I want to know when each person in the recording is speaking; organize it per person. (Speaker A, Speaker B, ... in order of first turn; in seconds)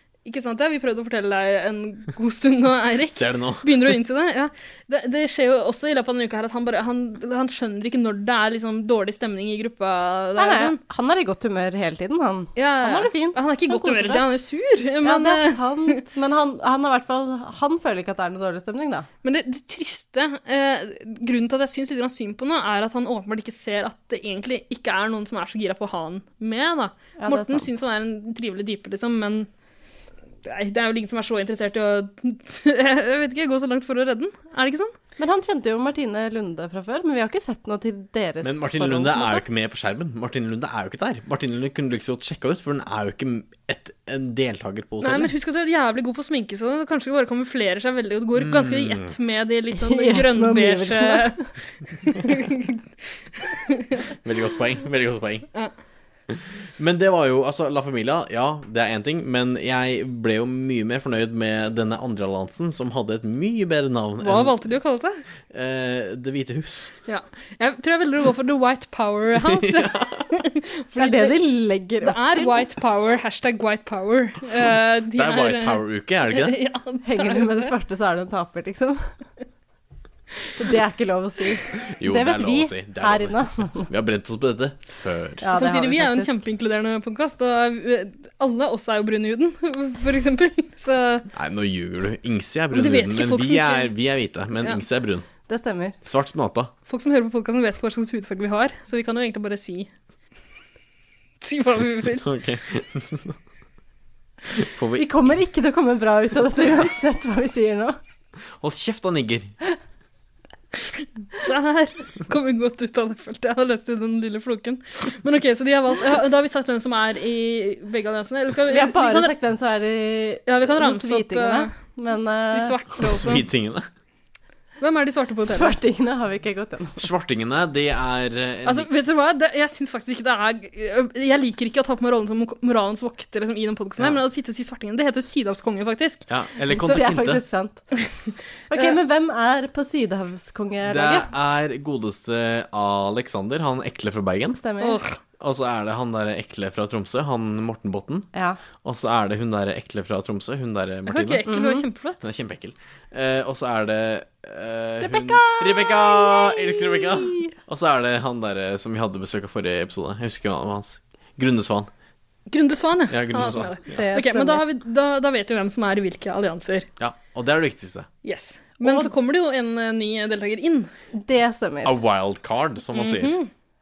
Speaker A: 0.2-10.8, 12.6-16.0, 19.2-29.5, 30.4-34.9, 45.0-52.8, 53.4-54.1, 64.2-65.2, 67.1-71.3, 72.0-77.7, 85.5-91.3, 92.7-93.9, 96.9-99.9, 101.4-102.3, 110.9-119.3, 120.5-121.8, 122.5-123.5, 124.8-125.8, 128.7-136.3, 144.8-145.2, 151.1-152.2, 162.5-166.9, 168.2-170.9, 172.9-173.5
Speaker B: 3.1-3.8, 38.4-45.3, 48.4-49.1, 54.2-55.5, 56.3-64.7, 65.5-66.9, 69.5-70.2, 75.2-76.6, 82.0-85.5, 91.3-95.3, 96.0-96.7, 102.2-103.4, 104.5-105.1, 108.6-109.5, 123.0-123.9, 127.0-128.9, 136.3-137.4, 140.8-144.6, 145.4-148.3, 148.8-151.5, 152.2-161.9, 163.1-164.0, 167.0-168.1, 171.8-173.4
Speaker C: 10.4-14.3, 15.0-19.1, 27.2-27.7, 35.2-39.4, 49.7-51.4, 71.0-72.6, 77.0-79.0, 80.6-83.9, 85.4-86.4, 95.5-96.0, 105.0-108.0, 118.7-122.7, 125.5-127.0, 136.7-137.8, 138.7-141.3, 144.6-145.0, 148.3-148.6, 151.5-151.8, 155.0-157.5, 164.0-164.6, 168.8-169.1, 171.1-172.0